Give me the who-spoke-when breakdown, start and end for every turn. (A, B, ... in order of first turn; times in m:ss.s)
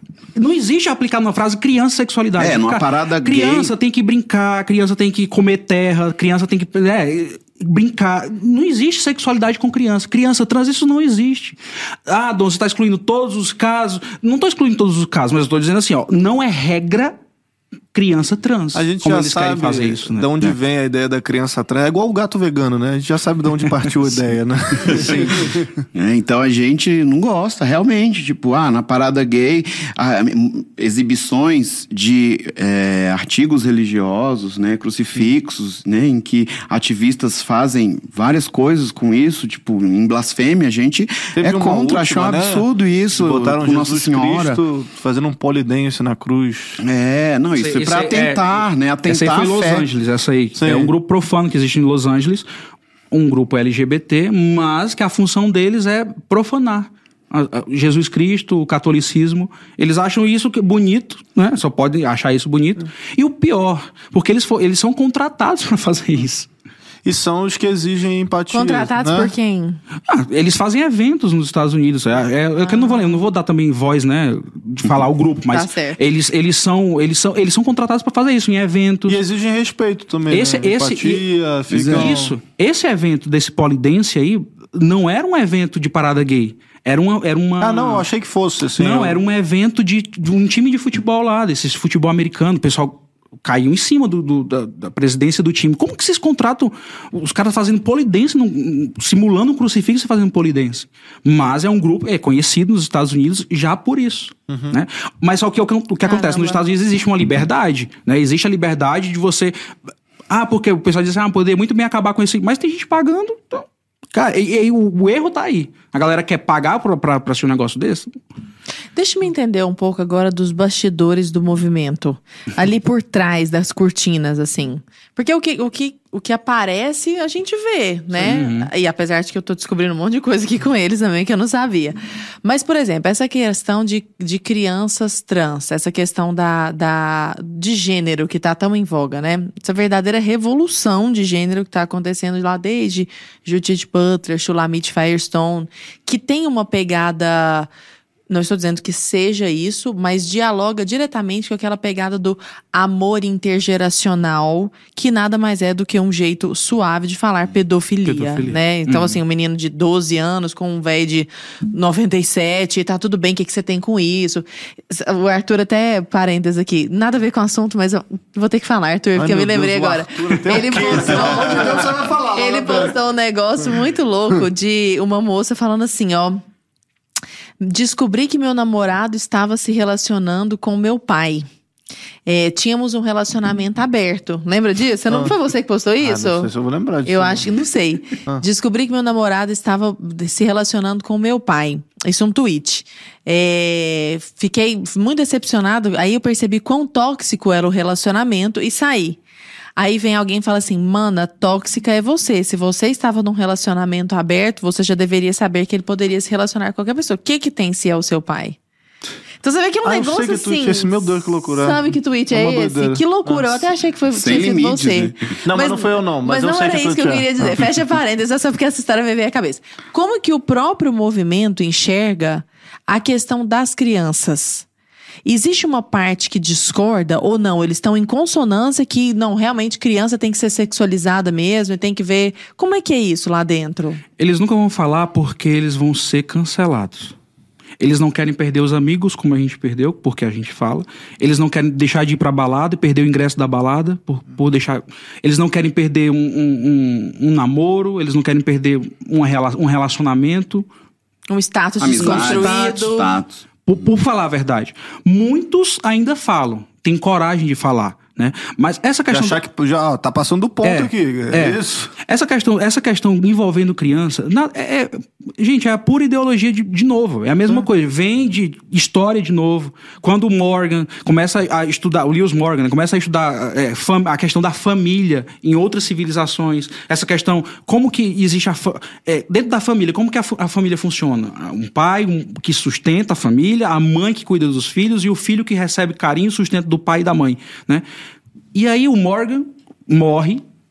0:00.3-0:17.1 A
0:02.4-0:03.7 B
0:17.9-0:20.3 A
0:18.7-0:25.8 C
0:24.8-0:25.4 A
0:25.9-0:44.6 B
0:41.3-0:46.8 C
0:46.8-0:49.9 B
0:47.6-0:52.5 A
0:50.6-0:50.9 C
0:53.1-1:06.5 A
1:07.0-1:09.3 C
1:08.5-1:09.8 D
1:10.0-1:19.2 A
1:12.6-1:13.2 D
1:15.5-1:16.0 D
1:19.1-1:22.4 C
1:20.3-1:21.2 A
1:21.7-1:22.2 B
1:21.9-1:28.1 A
1:27.6-1:29.2 C
1:28.8-1:49.6 A
1:44.5-1:44.8 C
1:46.0-1:46.6 D
1:50.3-1:58.2 A
1:58.9-2:27.7 D
2:08.2-2:08.7 A
2:28.3-2:56.4 D
2:38.0-2:39.1 A
2:49.2-2:53.0 C
2:51.1-2:51.6 B
2:57.6-3:01.5 D
3:02.2-3:06.5 D
3:06.0-3:07.5 C
3:07.0-3:19.2 D
3:19.8-3:28.6 D
3:29.4-3:44.6 D
3:29.8-3:33.6 C
3:34.1-3:35.3 B
3:35.4-3:37.6 C
3:45.2-3:54.0 D
3:54.2-3:57.1 A
3:57.8-4:10.7 A
4:11.3-4:13.1 D
4:11.8-4:13.4 B
4:12.0-4:13.0 A
4:13.6-4:19.4 A
4:19.1-4:21.9 C
4:20.6-4:47.8 A
4:48.5-4:50.4 A